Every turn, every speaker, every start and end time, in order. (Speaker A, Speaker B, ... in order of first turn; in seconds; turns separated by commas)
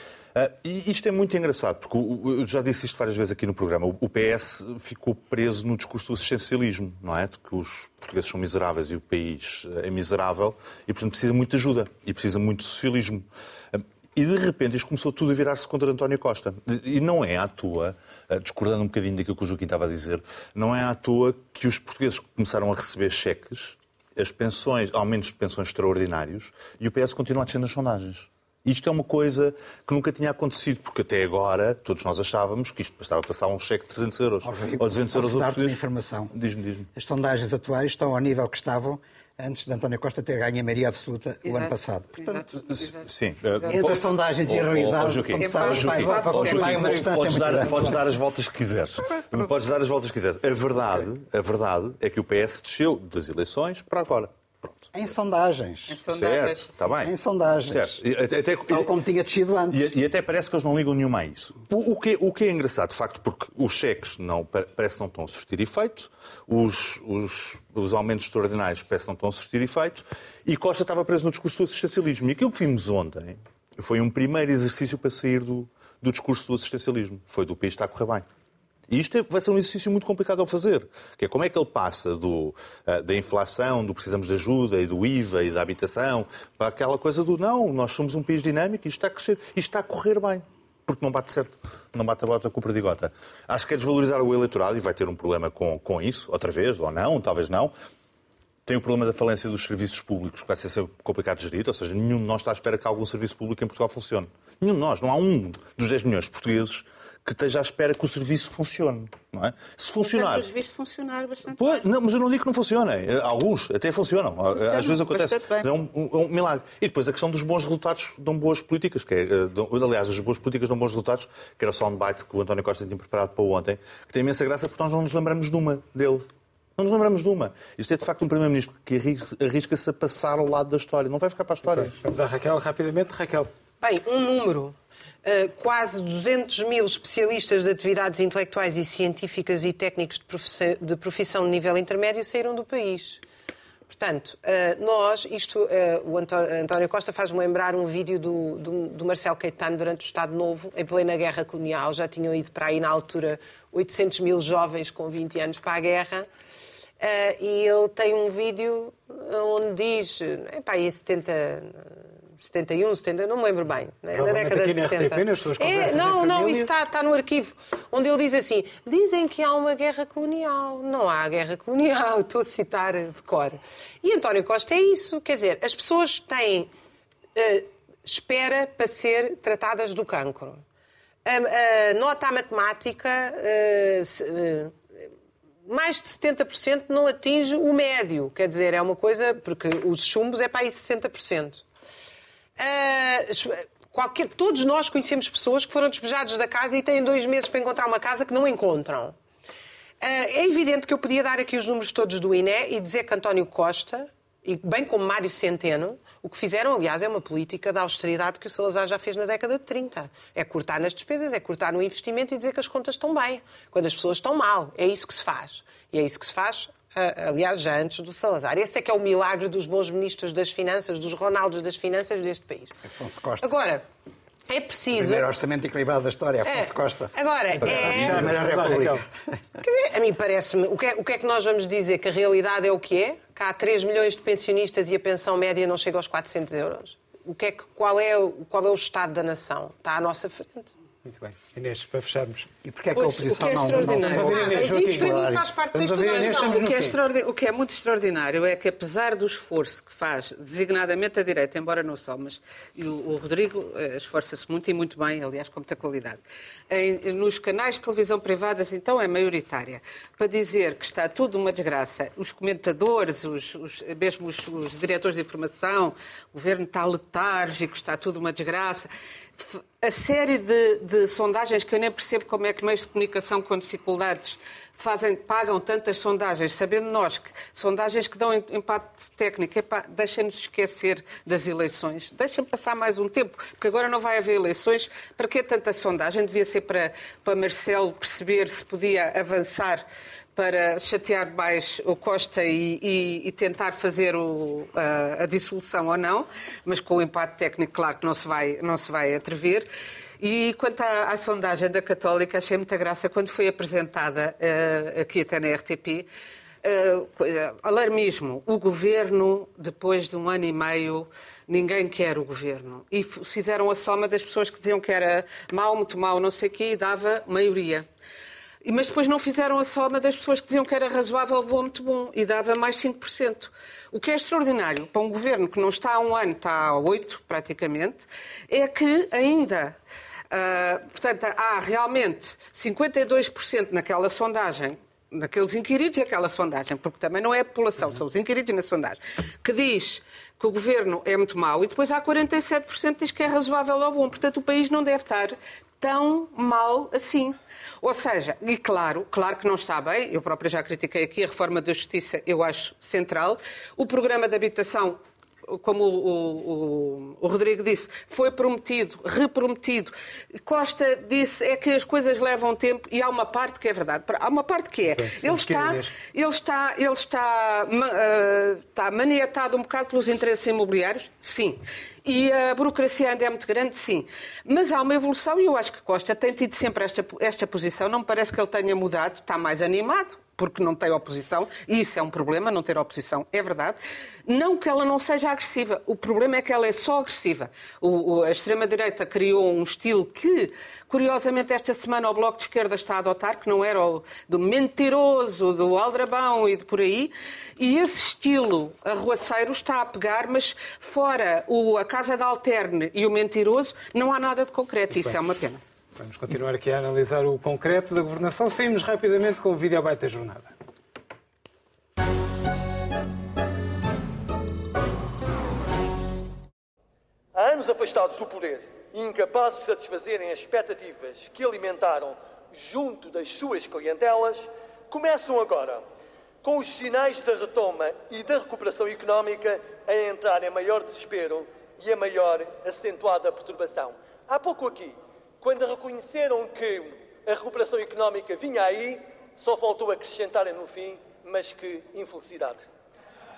Speaker A: 0.3-36.9, Speaker B: 34.4-36.3, Speaker B: 36.9-42.5, Speaker C: 41.4-44.0, Speaker A: 42.7-54.9, Speaker B: 43.7-48.0, Speaker C: 45.3-47.0, Speaker D: 45.7-47.9, Speaker B: 54.9-56.0, Speaker C: 55.9-56.8, Speaker A: 56.1-57.1, Speaker B: 57.0-58.0, Speaker A: 57.6-58.9, Speaker B: 58.7-59.8, Speaker A: 59.7-78.2, Speaker A: 78.9-97.7, Speaker A: 98.7-110.5, Speaker C: 110.0-111.8, Speaker A: 111.5-126.2, Speaker C: 114.5-115.7, Speaker A: 126.8-131.9, Speaker D: 131.7-133.5, Speaker E: 133.8-143.2, Speaker E: 143.9-156.3, Speaker E: 157.0-161.9, Speaker E: 162.4-176.7, Speaker D: 164.1-166.7, Speaker E: 177.3-180.6, Speaker E: 181.2-184.8, Speaker E: 185.7-191.6, Speaker E: 192.6-199.2, Speaker E: 200.0-222.8, Speaker B: 222.8-223.5, Speaker E: 223.4-223.8, Speaker E: 224.5-225.2, Speaker B: 224.9-229.1, Speaker E: 226.4-228.5, Speaker D: 227.5-229.1, Speaker E: 229.6-240.7, Speaker D: 241.0-242.5, Speaker B: 242.6-245.6, Speaker C: 242.9-244.5, Speaker E: 243.9-246.7, Speaker D: 244.0-247.0, Speaker C: 246.1-299.7, Speaker C: 300.2-306.1, Speaker C: 306.6-317.9, Speaker C: 318.6-329.8, Speaker C: 330.3-405.6, Speaker D: 365.0-365.9, Speaker D: 406.0-410.5, Speaker F: 417.3-425.9, Speaker F: 426.4-442.6